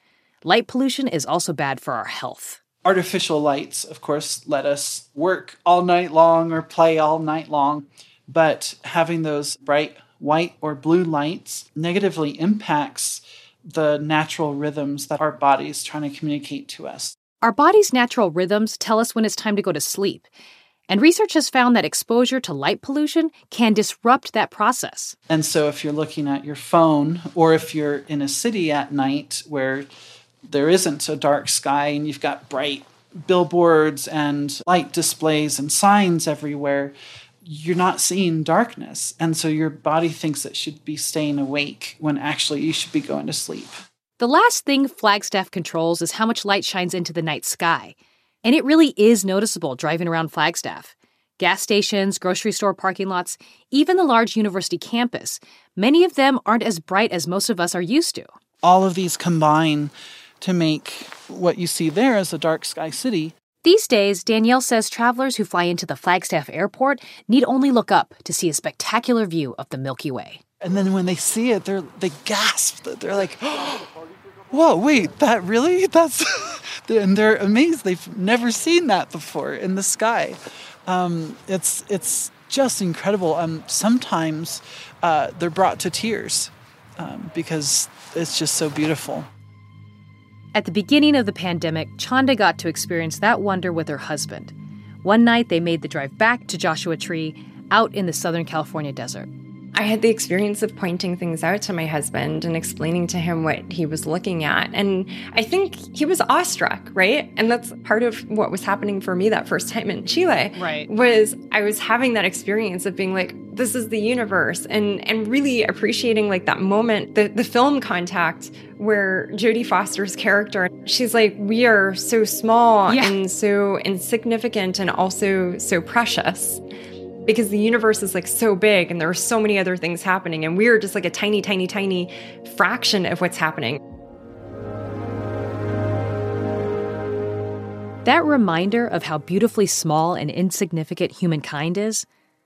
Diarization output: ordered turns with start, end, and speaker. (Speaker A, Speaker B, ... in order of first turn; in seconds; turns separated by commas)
Speaker A: 0.4-2.6, Speaker B: 2.8-17.1, Speaker A: 17.4-20.3, Speaker A: 20.9-25.1, Speaker B: 25.3-29.9, Speaker B: 30.5-43.8, Speaker A: 44.2-58.3, Speaker B: 58.6-63.3, Speaker A: 63.6-70.4, Speaker B: 70.6-73.9, Speaker B: 74.5-89.3, Speaker A: 90.5-99.3, Speaker C: 99.7-126.6, Speaker A: 110.5-110.9, Speaker C: 127.2-133.8, Speaker A: 138.0-142.0